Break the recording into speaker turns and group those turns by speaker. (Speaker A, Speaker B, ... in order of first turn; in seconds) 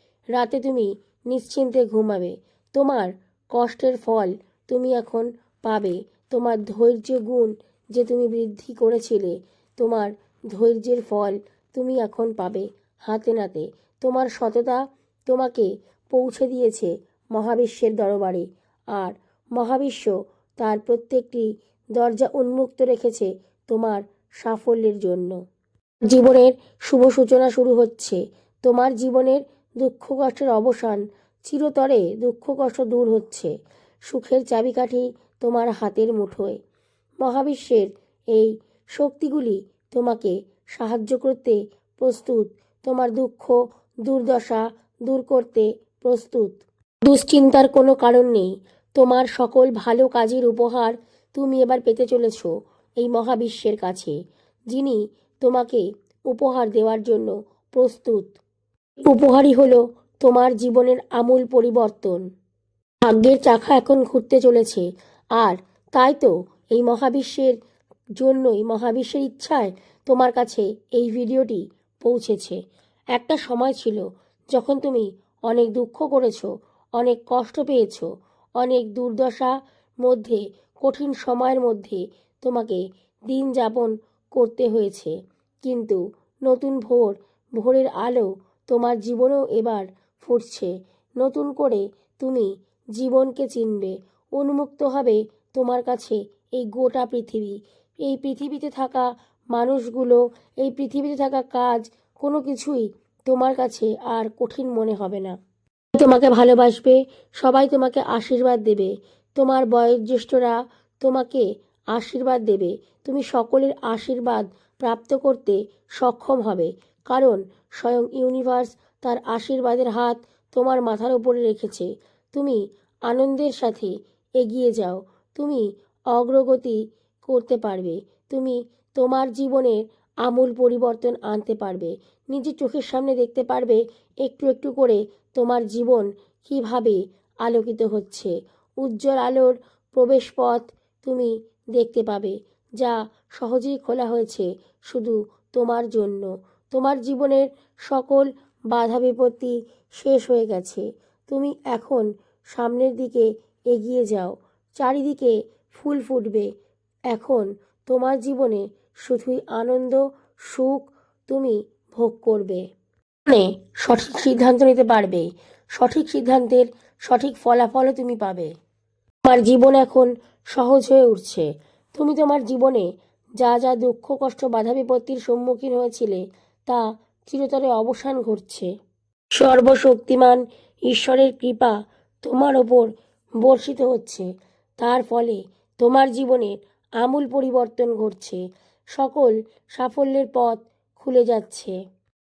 Speaker A: 0.3-25.4, 26.1-33.5, 34.1-36.6, 37.2-43.5, 44.0-54.1, 54.7-58.4, 59.0-62.2, 63.0-64.8, 65.4-67.5, 68.2-72.6, 73.1-74.0, 74.5-78.1, 78.6-79.5, 80.0-105.4, 106.0-156.5, 157.1-162.6, 163.3-168.5, 169.3-172.9, 173.4-178.7, 179.3-182.9, 183.4-184.2, 184.8-188.4, 188.9-191.7